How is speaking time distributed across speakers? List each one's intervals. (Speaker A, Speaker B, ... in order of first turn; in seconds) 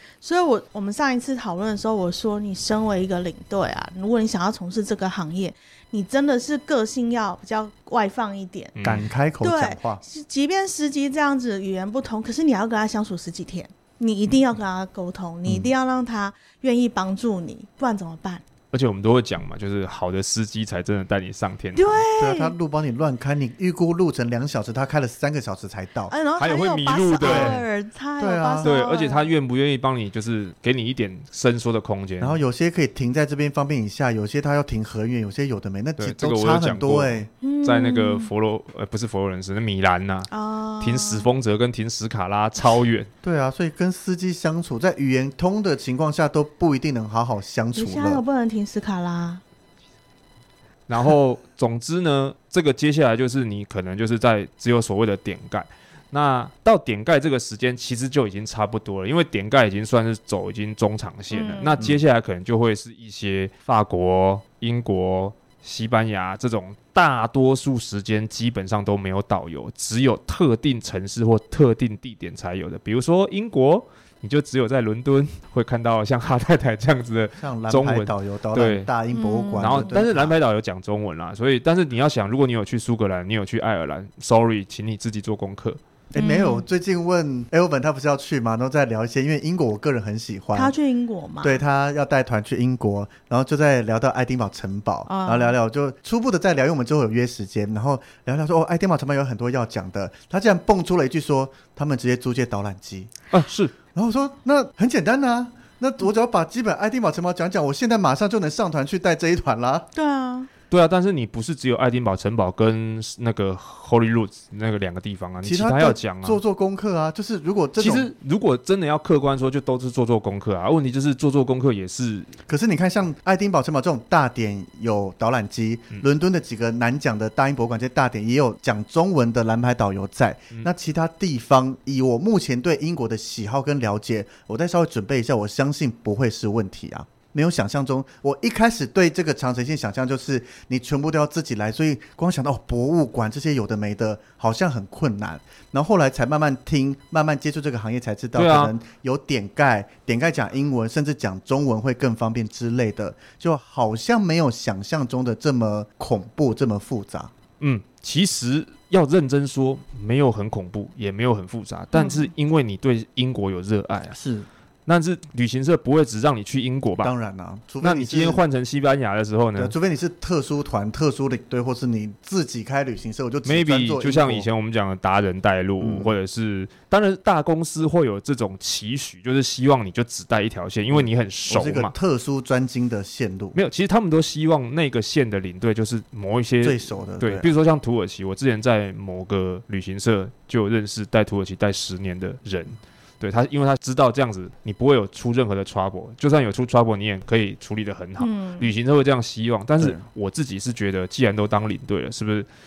Speaker A: 0.2-8.8, 9.4-18.4, 21.8-22.5, 26.1-29.3, 37.4-38.3, 40.3-41.3, 47.8-49.4, 61.3-61.9, 79.1-79.9, 86.2-86.7, 90.5-91.6, 95.1-95.6, 110.0-110.5, 161.9-162.3, 198.2-198.7
Speaker B: 8.8-9.1, 18.7-22.1, 26.4-27.6, 28.6-32.4, 36.0-40.3, 40.8-43.1, 50.9-78.9, 79.6-85.8, 103.3-103.7, 110.7-116.4, 117.8-122.3, 148.3-148.8, 157.6-164.2, 164.9-167.1, 167.8-169.7, 173.4-181.9, 183.6-202.5
Speaker C: 8.8-10.0, 15.4-15.7, 22.1-26.1, 27.2-27.6, 28.2-28.7, 32.2-37.3, 43.2-48.2, 77.4-80.3, 86.1-90.7, 91.4-103.1, 103.9-109.9, 115.4-118.1, 122.5-157.3, 164.1-164.5, 167.0-168.4, 169.6-174.5, 175.8-176.1, 180.9-183.6, 186.6-187.5, 199.8-200.0